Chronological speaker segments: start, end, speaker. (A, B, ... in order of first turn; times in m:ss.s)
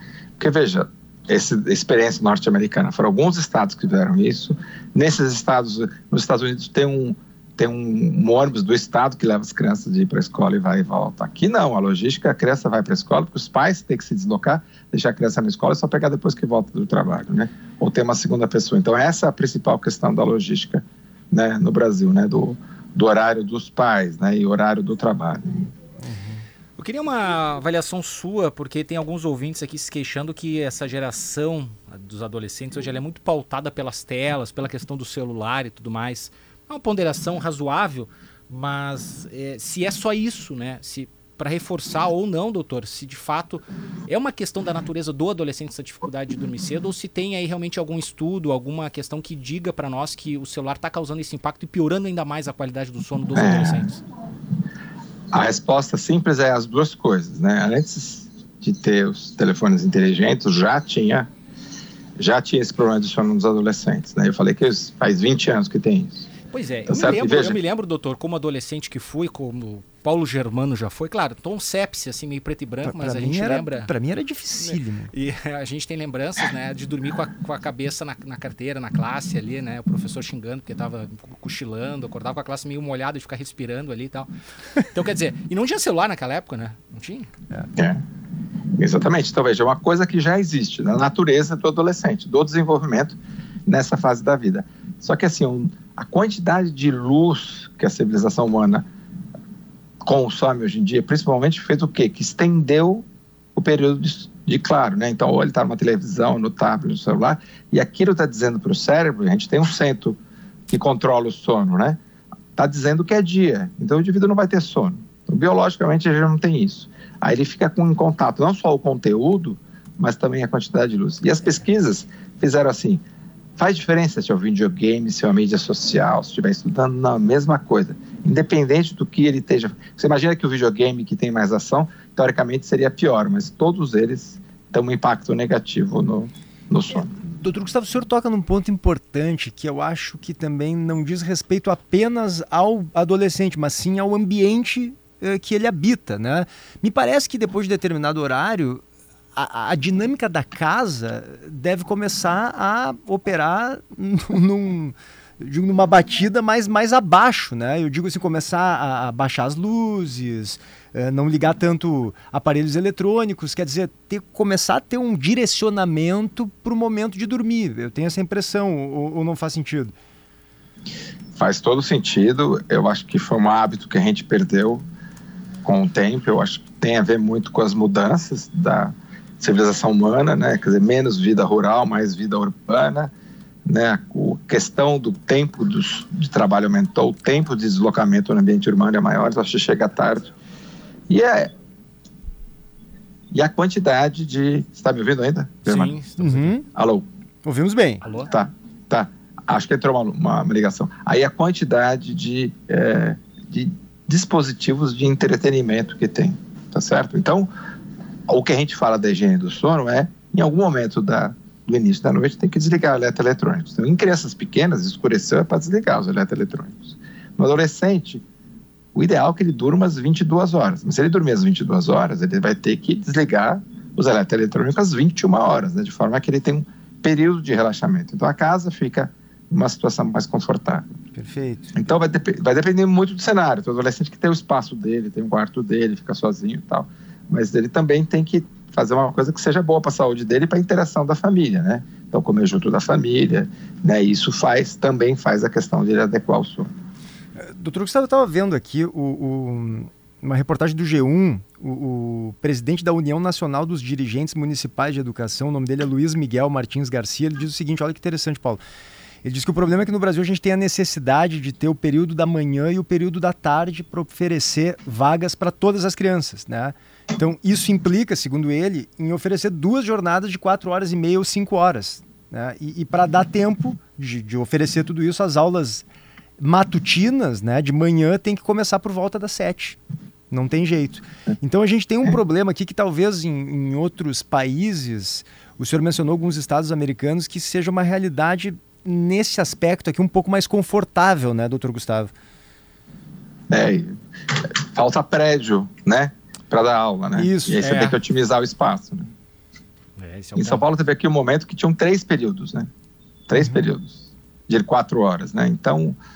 0:00.4-0:25.7 A
0:26.0-0:26.4 B
0:26.8-0:54.0 C
0:53.4-0:53.9 A
0:55.3-1:01.3 A
1:02.2-1:06.3 A
1:06.5-1:13.9 C
1:06.9-1:07.6 A
1:12.8-1:15.1 B
1:14.6-1:24.3 C
1:24.8-1:27.3 C
1:28.8-1:38.8 A
1:40.0-1:43.0 A
1:43.6-1:50.2 A
1:50.7-1:52.0 A
1:52.6-2:03.0 A
2:03.6-2:17.1 A
2:17.2-2:28.8 B
2:29.3-2:49.9 B
2:51.4-2:54.8 A
2:55.6-3:03.1 A
3:03.6-3:10.3 A
3:11.1-3:11.5 A
3:13.3-3:16.0 A
3:15.6-3:16.6 C
3:16.2-3:16.6 B
3:16.8-3:17.0 A
3:17.4-3:18.0 B
3:18.0-3:18.3 C
3:18.3-3:27.5 A
3:28.3-3:38.2 A
3:39.0-3:50.8 A
3:51.1-3:51.9 B
3:51.8-4:06.7 A
4:07.4-4:18.6 B
4:19.2-4:35.8 B
4:36.4-4:39.8 B
4:40.3-4:52.1 B
4:53.5-4:54.0 A
4:54.7-4:59.1 A
4:57.2-4:57.6 B
4:57.6-4:58.0 C
5:00.0-5:00.6 C
5:00.4-5:02.7 A
5:03.3-5:06.0 A
5:03.3-5:03.6 B